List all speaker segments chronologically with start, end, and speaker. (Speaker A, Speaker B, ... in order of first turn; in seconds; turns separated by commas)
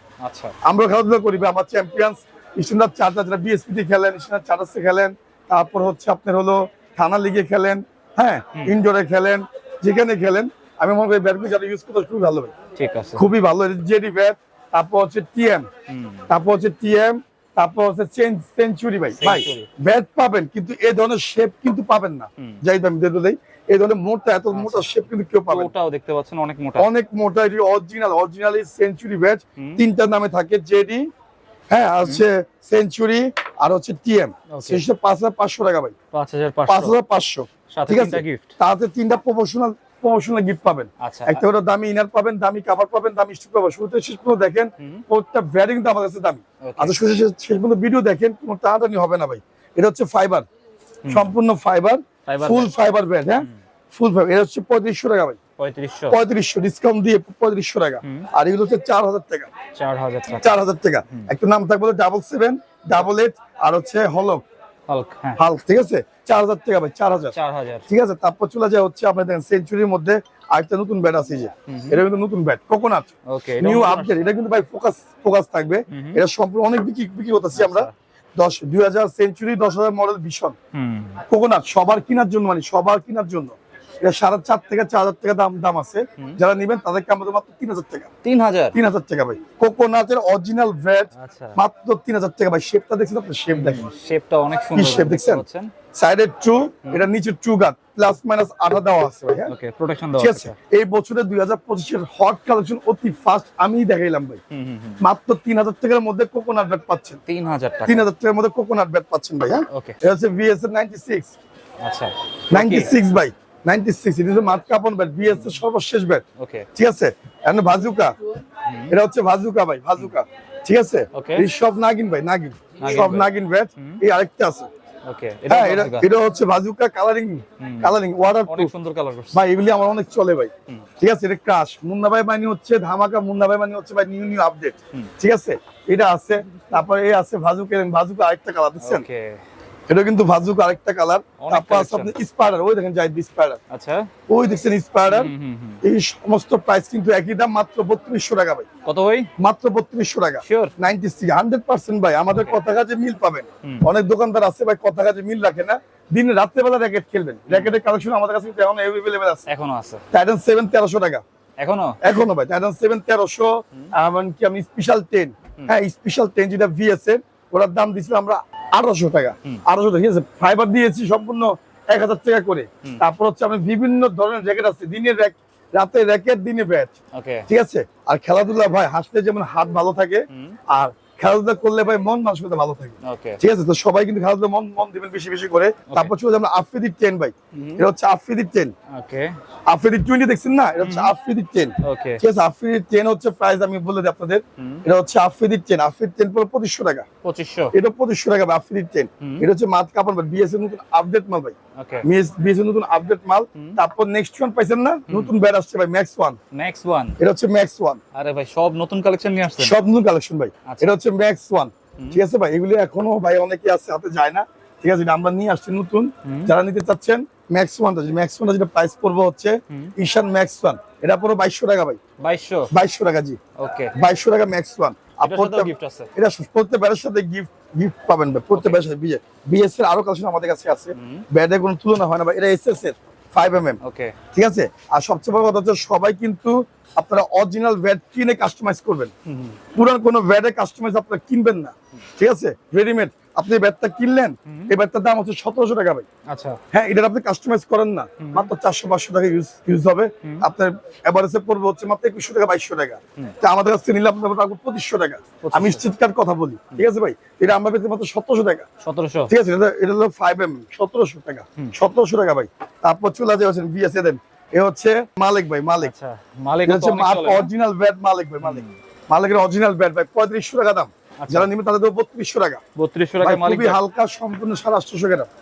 Speaker A: 0.2-0.5, Speaker B: 0.6-12.5, Speaker A: 12.8-13.2, Speaker B: 13.2-15.7, Speaker A: 15.9-16.3, Speaker B: 16.3-25.7, Speaker A: 19.1-19.7, Speaker A: 24.5-26.9, Speaker B: 26.8-31.1, Speaker A: 29.6-29.8, Speaker B: 31.7-35.9, Speaker A: 34.5-34.8, Speaker A: 36.1-37.0, Speaker B: 36.7-50.5, Speaker A: 37.7-38.6, Speaker A: 41.0-41.4, Speaker A: 44.8-45.0, Speaker A: 46.6-47.0, Speaker A: 51.0-51.3, Speaker B: 51.1-55.4, Speaker A: 52.2-52.7, Speaker A: 55.6-56.2, Speaker B: 56.1-59.5, Speaker A: 59.7-61.3, Speaker B: 60.4-64.4, Speaker A: 64.9-65.4, Speaker B: 65.4-67.3, Speaker A: 67.3-67.9, Speaker B: 67.9-80.5, Speaker A: 71.7-72.0, Speaker A: 73.3-74.2, Speaker A: 75.9-76.2, Speaker A: 77.5-77.9, Speaker A: 80.7-81.2, Speaker B: 81.3-88.1, Speaker A: 88.2-88.8, Speaker B: 88.7-93.9, Speaker A: 91.1-91.6, Speaker A: 93.5-95.7, Speaker B: 94.7-99.5, Speaker A: 99.5-100.5, Speaker B: 100.2-104.4, Speaker A: 104.5-105.0, Speaker B: 105.0-107.2, Speaker A: 107.3-108.0, Speaker B: 107.8-111.3, Speaker A: 109.7-110.0, Speaker A: 111.8-113.0, Speaker B: 112.5-116.2, Speaker A: 116.4-116.7, Speaker B: 116.8-118.1, Speaker A: 118.6-118.9, Speaker B: 118.9-124.7, Speaker A: 121.1-121.5, Speaker A: 122.8-124.0, Speaker A: 125.0-126.1, Speaker B: 125.5-128.7, Speaker A: 127.6-127.9, Speaker A: 128.4-129.4, Speaker B: 129.3-139.0, Speaker A: 138.8-139.4, Speaker B: 139.9-143.6, Speaker A: 141.4-142.1, Speaker A: 143.7-144.1, Speaker B: 144.3-148.7, Speaker A: 145.1-145.8, Speaker A: 148.8-149.3, Speaker B: 149.4-159.4, Speaker A: 150.4-150.7, Speaker A: 152.3-152.6, Speaker A: 157.5-157.8, Speaker A: 159.5-160.0, Speaker B: 160.1-161.2, Speaker A: 161.6-162.0, Speaker B: 162.0-176.9, Speaker A: 177.1-177.5, Speaker B: 177.5-188.7, Speaker A: 180.3-180.6, Speaker A: 183.0-183.4, Speaker A: 185.9-186.1, Speaker A: 187.5-187.8, Speaker A: 188.9-189.3, Speaker B: 189.7-197.1, Speaker A: 190.8-191.1, Speaker A: 191.8-192.2, Speaker A: 194.6-194.8, Speaker A: 197.2-197.7, Speaker B: 197.7-206.4, Speaker A: 199.2-199.4, Speaker A: 201.8-202.1, Speaker A: 205.1-205.3, Speaker A: 206.5-207.2, Speaker B: 207.2-208.0, Speaker A: 208.1-209.8, Speaker B: 209.6-222.0, Speaker A: 210.7-211.0, Speaker A: 216.2-216.5, Speaker A: 222.2-222.7, Speaker B: 222.7-223.4, Speaker A: 223.6-223.9, Speaker B: 223.9-233.8, Speaker A: 225.2-226.1, Speaker A: 228.5-228.8, Speaker A: 230.9-231.2, Speaker A: 233.8-234.2, Speaker B: 234.3-239.1, Speaker A: 239.2-239.6, Speaker B: 239.7-246.1, Speaker A: 244.4-244.7, Speaker A: 246.3-246.6, Speaker B: 246.7-258.7, Speaker A: 248.2-248.5, Speaker A: 255.4-255.8, Speaker A: 258.8-259.3, Speaker B: 259.3-265.9, Speaker A: 265.8-267.5, Speaker B: 266.6-272.6, Speaker A: 268.4-268.8, Speaker A: 271.2-271.5, Speaker A: 272.8-273.8, Speaker B: 273.2-275.3